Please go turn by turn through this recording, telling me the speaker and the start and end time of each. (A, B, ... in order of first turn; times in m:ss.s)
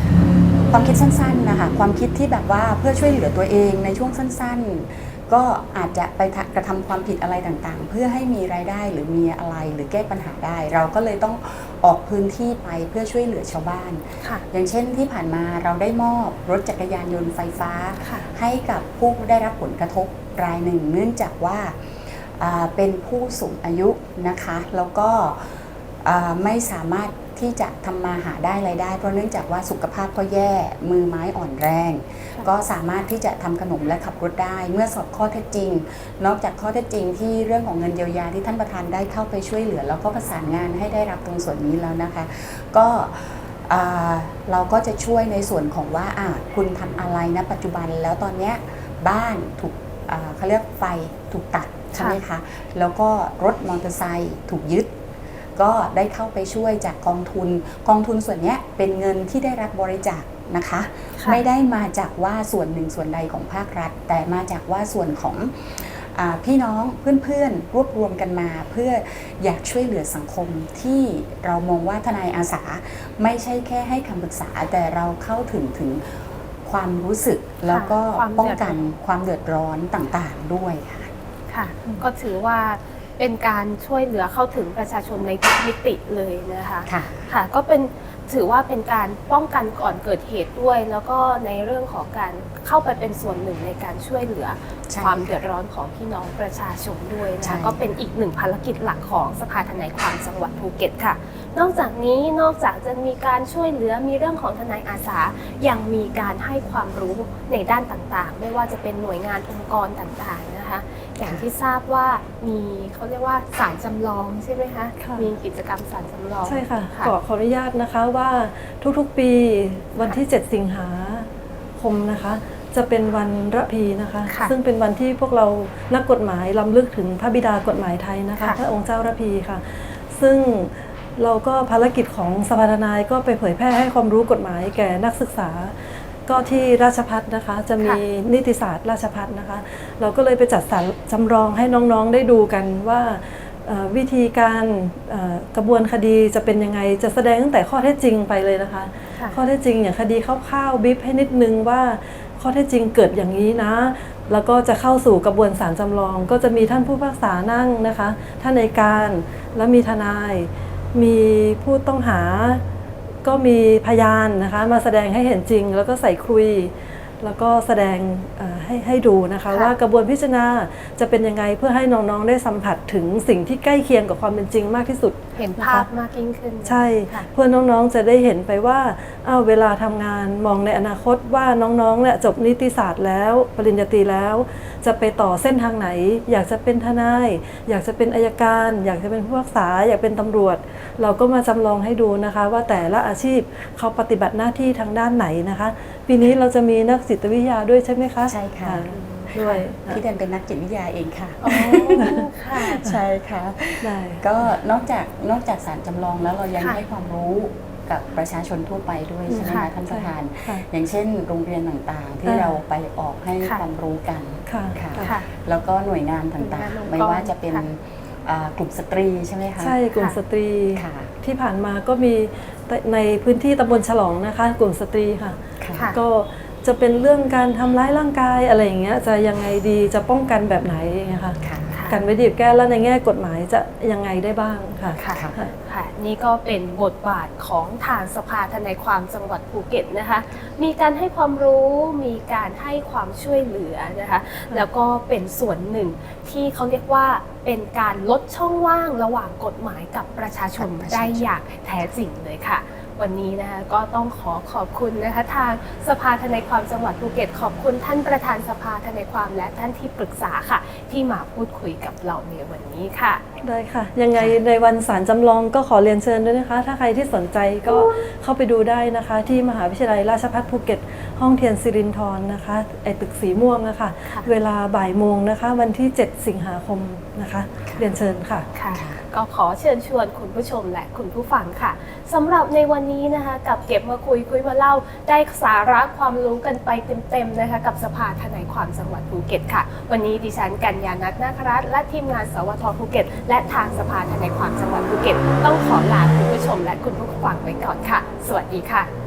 0:00.6-0:54.9 A
0:18.0-0:18.3 B
0:52.0-0:52.2 B
0:55.6-1:21.1 A
1:01.2-1:01.4 B
1:17.7-1:18.8 B
1:21.5-1:57.1 B
1:26.9-1:27.3 A
1:34.9-1:35.3 A
1:37.4-1:37.8 A
1:55.0-1:55.3 C
1:56.4-2:01.3 C
2:01.8-2:42.6 C
2:04.3-2:04.5 B
2:29.1-2:29.4 B
2:43.2-2:55.9 C
2:55.4-2:57.3 B
2:56.6-3:20.0 C
3:18.3-3:18.9 A
3:18.9-3:19.6 B
3:19.9-3:39.8 A
3:21.4-3:22.8 B
3:21.6-3:22.3 C
3:23.8-3:24.3 C
3:29.3-3:30.7 C
3:29.4-3:29.7 B
3:32.3-3:32.6 C
3:34.5-3:35.1 C
3:35.0-3:35.3 B
3:36.4-3:37.7 B
3:39.6-3:45.4 C
3:40.8-3:41.1 A
3:45.6-3:45.9 A
3:45.7-3:46.0 B
3:45.9-3:55.5 C
3:51.4-3:51.7 A
3:51.7-3:52.0 B
3:55.0-4:23.2 B
3:55.1-3:55.4 A
4:10.6-4:11.2 A
4:23.4-4:38.5 C
4:38.5-4:58.9 B
4:38.7-4:39.0 A